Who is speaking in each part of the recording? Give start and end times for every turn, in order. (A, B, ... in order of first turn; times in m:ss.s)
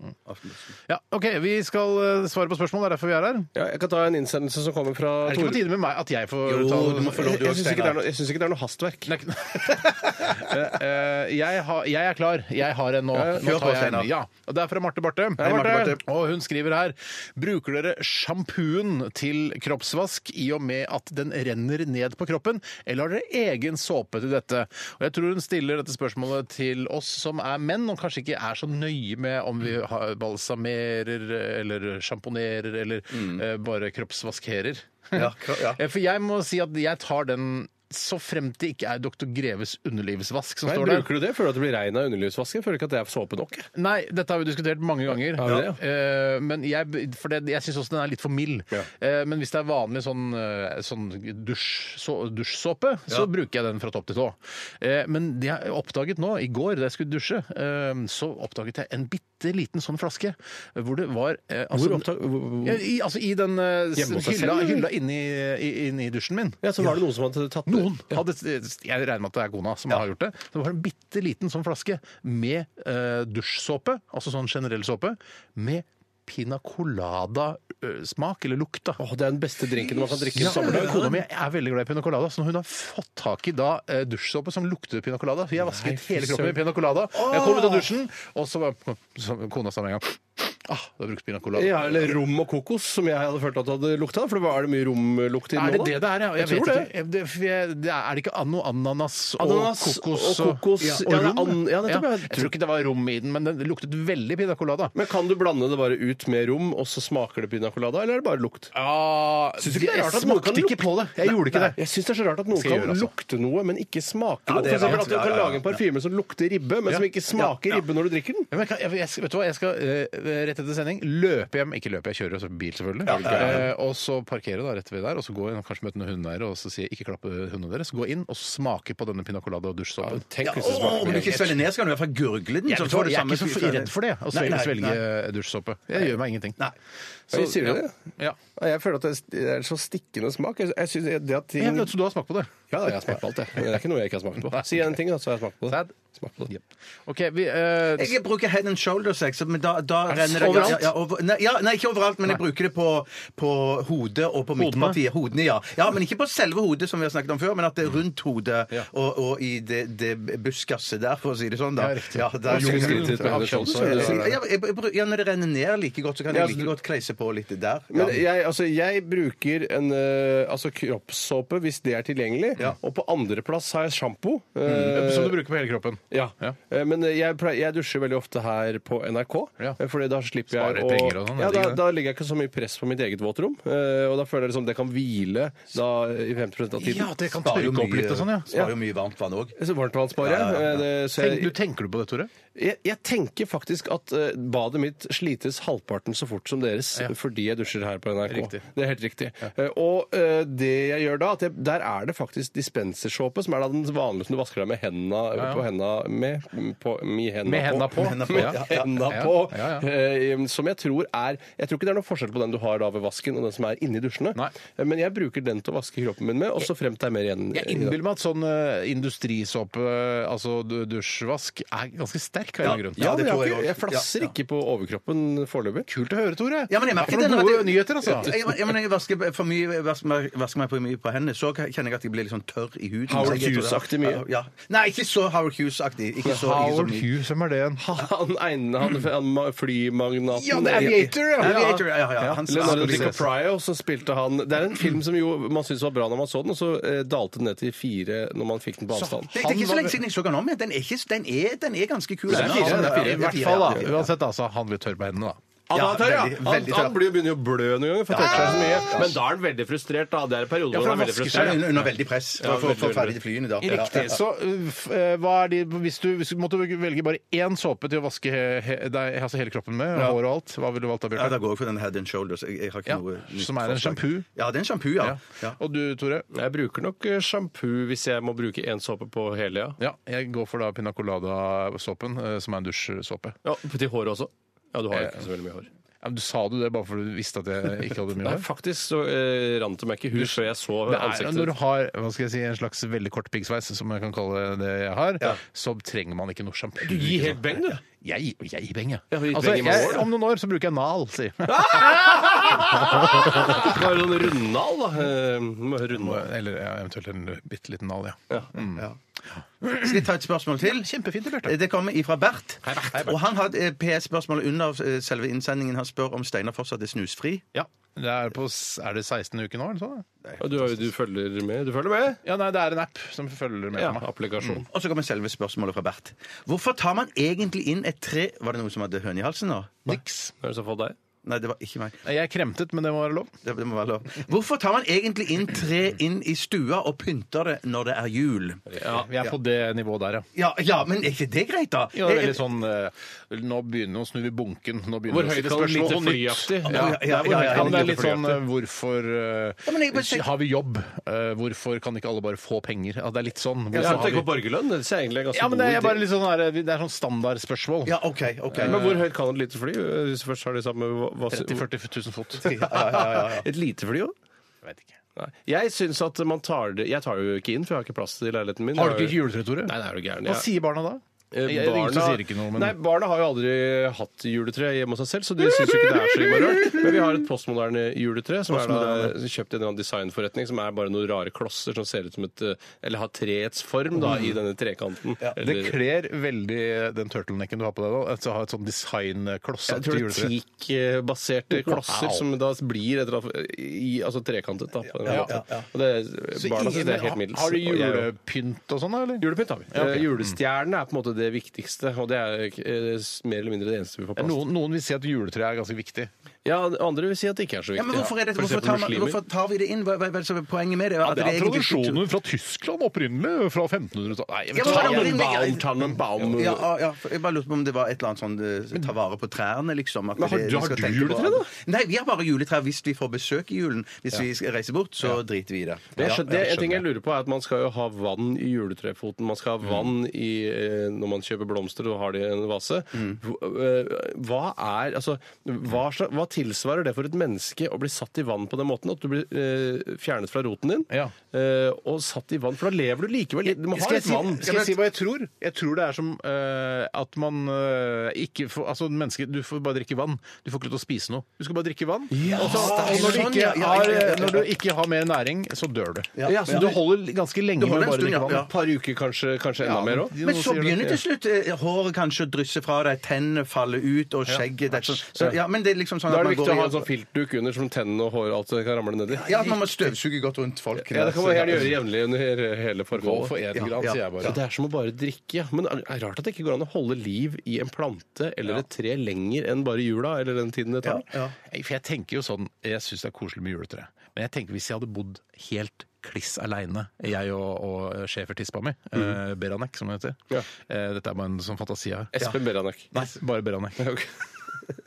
0:00.3-0:00.8 A
0:00.9-0:03.5 B
0:03.6-0:05.7 C
0:05.2-0:07.6 B
0:06.4-0:08.0 A
0:07.2-0:09.1 C
0:09.1-0:41.1 B
0:13.1-0:13.5 C
0:13.3-0:14.1 A
0:15.4-0:16.0 C
0:15.4-0:16.0 A
0:33.1-0:33.4 A
0:35.1-0:35.8 A
0:40.6-0:43.7 C
0:43.8-1:02.1 B
0:45.3-0:45.8 C
1:01.7-1:02.8 C
1:02.6-1:06.9 B
1:04.0-1:04.9 C
1:06.6-1:08.2 C
1:07.7-1:19.0 B
1:19.0-1:21.2 C
1:19.8-1:21.2 A
1:20.4-1:32.2 B
1:25.6-1:26.6 C
1:27.1-1:27.9 A
1:31.6-1:36.9 C
1:35.5-1:44.9 B
1:39.4-1:42.5 C
1:44.9-1:48.7 C
1:48.7-1:51.8 B
1:49.6-1:58.5 C
1:52.5-1:53.1 B
1:54.5-1:55.8 A
1:58.5-2:11.6 B
2:03.1-2:03.7 A
2:03.1-2:03.7 C
2:10.0-2:11.5 C
2:10.4-2:15.0 A
2:12.7-2:16.6 B
2:17.3-2:18.4 B
2:17.3-2:17.9 C
2:18.6-2:21.9 C
2:21.6-2:22.5 B
2:22.7-2:26.5 C
2:24.5-2:25.0 B
2:26.4-2:28.2 B
2:28.0-2:48.2 A
2:30.1-2:30.9 B
2:34.6-2:35.0 B
2:41.8-2:44.4 B
2:42.5-2:44.3 C
2:46.3-2:46.7 C
2:47.9-2:55.4 C
2:54.6-2:55.1 A
2:54.7-2:56.6 B
2:56.1-3:07.2 C
3:00.5-3:01.8 B
3:06.8-3:08.5 B
3:07.4-3:09.6 A
3:09.6-3:11.6 C
3:10.2-3:10.8 A
3:11.2-3:12.3 B
3:12.6-3:38.0 C
3:18.3-3:18.6 B
3:25.4-3:25.6 B
3:27.4-3:29.9 B
3:27.9-3:29.0 A
3:37.5-3:43.1 B
3:42.6-3:44.1 A
3:43.0-3:45.9 C
3:45.9-3:48.4 B
3:46.7-3:57.1 A
3:53.1-3:54.2 C
3:56.2-3:57.8 B
3:57.8-4:01.9 C
4:00.3-4:03.2 B
4:00.7-4:03.2 A
4:02.5-4:09.3 C
4:08.9-4:10.0 B
4:09.3-4:14.1 A
4:12.3-4:13.5 C
4:12.3-4:15.4 B
4:15.7-4:21.9 C
4:15.7-4:17.1 A
4:18.1-4:19.2 A
4:20.7-4:21.9 B
4:21.3-4:24.1 A
4:22.4-4:23.2 C
4:23.6-4:31.4 B
4:23.7-4:24.0 C
4:31.1-4:35.6 A
4:32.9-4:34.3 B
4:35.0-4:36.3 B
4:36.3-4:39.8 C
4:39.8-4:43.4 B
4:43.4-4:45.7 C
4:44.9-4:45.2 B
4:46.0-4:48.5 B
4:48.2-4:51.6 C
4:50.2-5:03.9 B
4:56.8-4:57.8 C
4:59.1-5:00.1 C
5:01.5-5:06.3 C
5:05.9-5:10.1 B
5:09.8-5:10.9 A
5:10.6-5:11.6 B
5:11.4-5:17.5 A
5:12.6-5:13.2 B
5:17.5-5:20.1 B
5:20.4-5:22.2 C
5:22.2-5:24.6 B
5:23.7-5:24.7 C
5:24.7-5:30.0 A
5:29.9-5:30.3 B
5:30.4-5:31.0 C
5:31.2-5:32.0 A
5:32.0-5:33.3 B
5:33.4-5:39.3 A
5:38.7-5:40.3 B
5:40.4-5:42.4 A
5:41.9-5:54.3 B
5:45.1-5:48.4 C
5:46.7-5:48.3 A
5:49.6-5:50.3 A
5:53.7-5:54.3 A
5:53.8-5:56.0 C
5:55.3-5:58.0 B
5:57.8-5:59.0 A
5:58.5-5:59.0 B
5:58.6-6:01.6 C
6:01.3-6:02.9 B
6:02.4-6:03.5 A
6:02.6-6:04.1 C
6:04.6-6:05.0 B
6:05.2-6:10.5 C
6:08.7-6:12.8 B
6:11.3-6:25.8 C
6:18.5-6:19.1 B
6:25.4-6:30.3 B
6:29.7-6:38.1 C
6:31.5-6:32.3 B
6:35.0-6:35.4 B
6:35.1-6:35.7 A
6:36.4-6:40.4 B
6:39.2-6:44.4 C
6:44.2-6:46.1 B
6:46.4-6:49.2 C
6:47.8-6:52.0 A
6:51.0-6:55.2 B
6:54.5-7:06.5 A
6:54.6-6:56.7 C
7:00.2-7:01.5 C
7:06.0-7:24.6 C
7:06.3-7:06.8 B
7:23.4-7:38.5 B
7:24.4-7:24.8 A
7:32.1-7:33.3 C
7:32.3-7:34.5 A
7:36.2-7:36.8 A
7:36.2-7:36.8 C
7:37.6-7:38.5 A
7:38.3-7:40.2 C
7:39.6-7:40.9 B
7:40.1-7:46.8 A
7:44.3-7:45.3 B
7:46.1-7:49.6 C
7:49.1-7:51.8 A
7:50.8-7:53.4 C
7:52.9-7:54.4 B
7:53.6-7:54.4 A
7:54.2-8:01.0 C
8:00.8-8:01.4 A
8:01.5-8:12.1 B
8:12.1-8:12.9 C
8:12.9-8:13.8 B
8:13.8-8:14.1 C